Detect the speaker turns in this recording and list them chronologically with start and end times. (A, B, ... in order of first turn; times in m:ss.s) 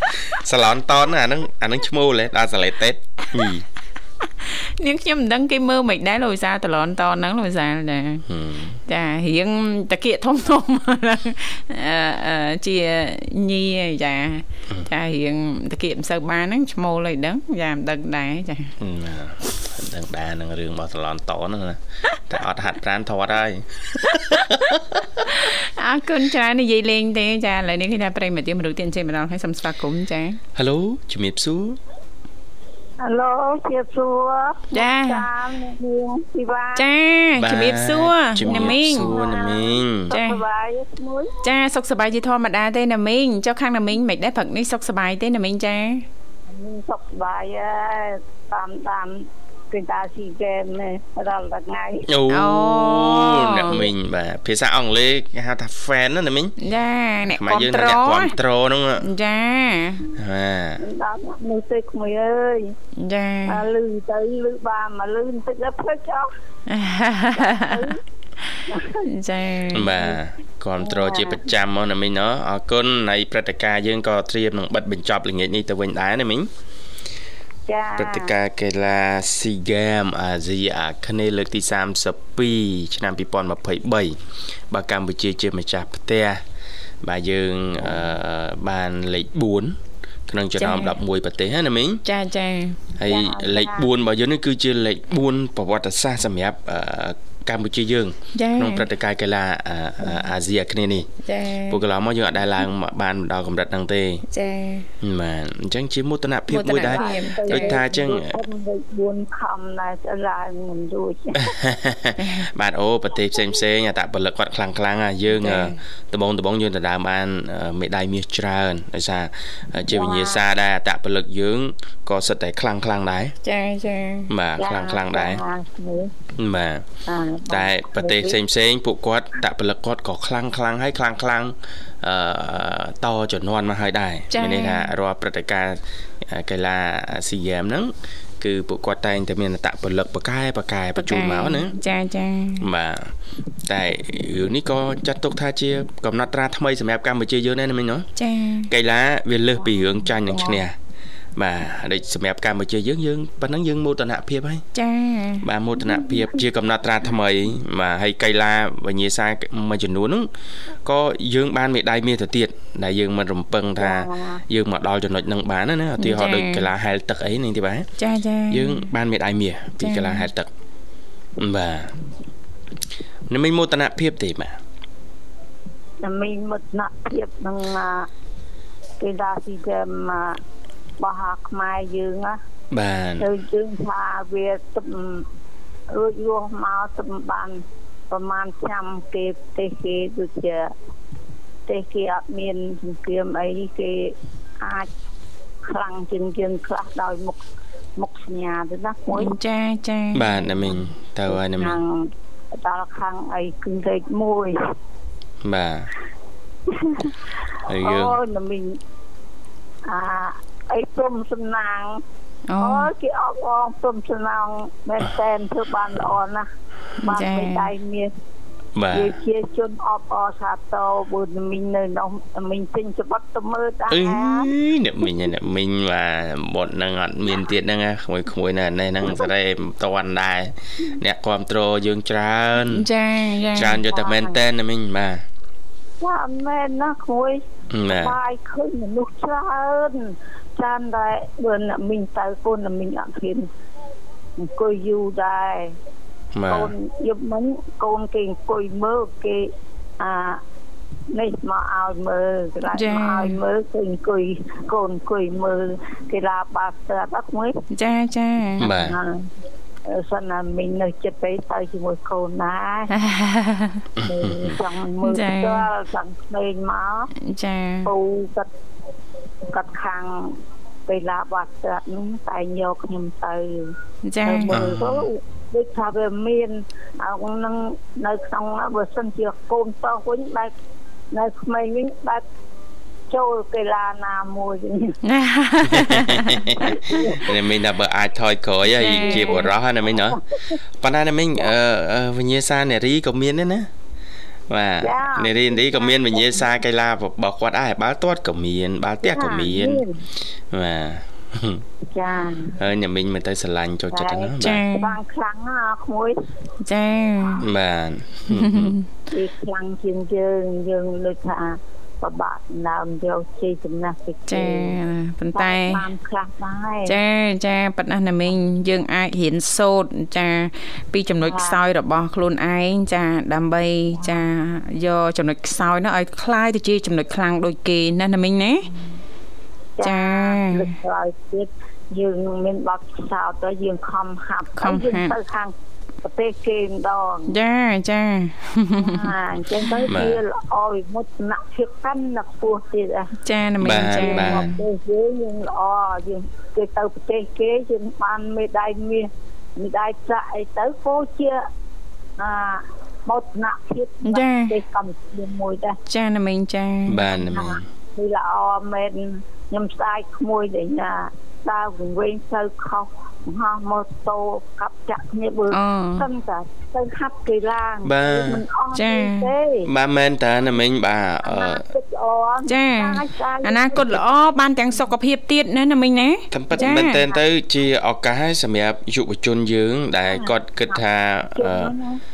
0:00.3-0:03.6 A
0:04.4-0:08.2 B
0:08.3-0:08.8 A
0:08.9-0:18.7 B
0:18.8-0:25.1 A
0:25.2-0:30.4 B
0:30.6-0:31.8 A
0:33.0-0:36.9 C
0:34.7-0:35.3 B
0:36.8-0:39.2 B
0:37.4-0:40.1 A
0:38.4-0:41.4 C
0:40.1-0:40.4 B
0:41.4-0:46.1 B
0:46.5-0:52.1 C
0:52.1-0:56.6 A
0:52.3-0:53.9 B
0:56.6-0:58.4 B
0:57.3-0:59.1 A
0:59.0-1:00.1 B
1:00.2-1:00.8 A
1:00.8-1:02.8 C
1:03.0-1:03.7 B
1:03.5-1:06.3 C
1:06.7-1:08.0 B
1:07.3-1:08.0 C
1:08.5-1:10.2 B
1:08.7-1:09.1 C
1:09.7-1:16.5 A
1:10.8-1:11.4 C
1:17.7-1:18.3 C
1:18.0-1:24.2 A
1:24.7-1:26.4 A
1:27.0-1:32.0 A
1:30.6-1:31.0 B
1:32.0-1:32.8 B
1:33.0-1:41.1 A
1:33.1-1:33.9 C
1:38.4-1:38.9 B
1:41.2-1:41.8 B
1:41.7-1:44.2 A
1:44.3-1:44.9 B
1:45.0-1:48.4 A
1:46.5-1:47.8 B
1:46.9-1:51.6 C
1:51.4-2:03.4 A
1:52.2-1:52.5 B
1:55.3-1:55.8 B
1:59.9-2:00.4 C
2:03.4-2:04.3 B
2:04.3-2:05.4 A
2:04.6-2:06.1 C
2:06.4-2:06.9 A
2:07.1-2:08.4 C
2:07.5-2:21.8 A
2:14.3-2:14.9 B
2:21.0-2:22.7 B
2:22.6-2:23.1 A
2:23.6-2:28.1 A
2:28.2-2:28.7 B
2:28.7-2:30.8 A
2:31.4-2:34.6 A
2:34.8-2:35.5 B
2:35.4-2:40.3 A
2:40.8-2:47.9 A
2:43.8-2:44.4 C
2:46.0-2:46.7 B
2:48.0-2:48.9 B
2:48.5-2:50.5 A
2:49.8-2:50.3 B
2:51.4-2:52.0 A
2:53.3-2:54.6 A
2:56.0-2:58.1 C
2:59.0-3:00.4 C
3:01.0-3:02.4 C
3:02.7-3:03.3 A
3:03.2-3:05.3 C
3:05.9-3:10.7 C
3:11.7-3:14.9 C
3:15.6-3:17.4 C
3:18.0-3:19.4 C
3:19.1-3:20.4 B
3:20.1-3:21.8 A
3:21.3-3:24.6 C
3:25.4-3:25.9 A
3:26.7-3:27.2 C
3:27.7-3:28.2 A
3:27.8-3:28.8 C
3:29.9-3:32.0 C
3:32.5-3:32.9 B
3:32.6-3:36.5 C
3:37.0-3:37.7 B
3:37.0-3:38.1 C
3:38.8-3:39.2 A
3:38.9-3:44.5 C
3:43.9-3:52.9 A
3:52.7-3:53.8 B
3:53.5-3:55.2 A
3:53.9-3:54.4 C
3:56.0-4:03.5 C
3:57.7-3:58.2 A
4:04.4-4:05.8 C
4:06.3-4:06.7 A
4:06.5-4:10.4 C
4:11.1-4:17.6 C
4:12.7-4:13.4 B
4:17.7-4:18.7 B
4:18.6-4:19.0 A
4:18.6-4:19.3 C
4:19.9-4:22.9 C
4:22.9-4:23.8 B
4:24.0-4:24.5 A
4:24.0-4:27.1 C
4:25.0-4:25.7 B
4:27.2-4:27.9 B
4:27.8-4:28.5 C
4:29.5-4:40.5 C
4:34.0-4:34.6 B
4:34.5-4:35.1 A
4:41.1-4:42.2 C
4:43.1-4:45.0 C
4:45.0-4:47.0 B
4:45.7-4:50.2 A
4:46.5-4:47.3 C
4:48.8-4:49.5 B
4:48.8-4:50.6 C
4:50.8-4:53.7 A
4:54.5-4:59.8 A
4:54.8-4:56.4 C
4:59.0-5:00.0 C
5:00.5-5:01.6 A
5:01.9-5:02.6 C
5:02.6-5:04.6 A
5:03.9-5:06.2 C
5:04.4-5:05.0 B
5:06.6-5:07.5 B
5:07.4-5:08.8 A
5:08.3-5:08.9 B
5:09.1-5:14.8 C
5:14.3-5:15.9 B
5:15.3-5:17.0 C
5:16.9-5:28.7 B
5:21.2-5:21.6 C
5:24.0-5:24.2 C
5:29.8-5:37.4 C
5:29.8-5:30.7 B
5:34.6-5:35.2 B
5:37.3-5:39.2 B
5:38.8-5:43.1 C
5:39.9-5:40.2 A
5:43.2-5:44.6 B
5:43.6-5:44.5 A
5:43.9-5:51.4 C
5:52.2-5:55.8 C
5:54.0-5:54.6 B
5:55.9-5:57.1 B
5:56.9-5:57.6 A
5:57.1-6:09.7 C
6:05.5-6:06.1 B
6:07.8-6:08.4 A
6:08.7-6:09.3 B
6:09.7-6:11.6 A
6:11.2-6:14.0 C
6:12.5-6:17.0 B
6:16.3-6:21.7 A
6:16.5-6:17.2 C
6:20.1-6:22.0 C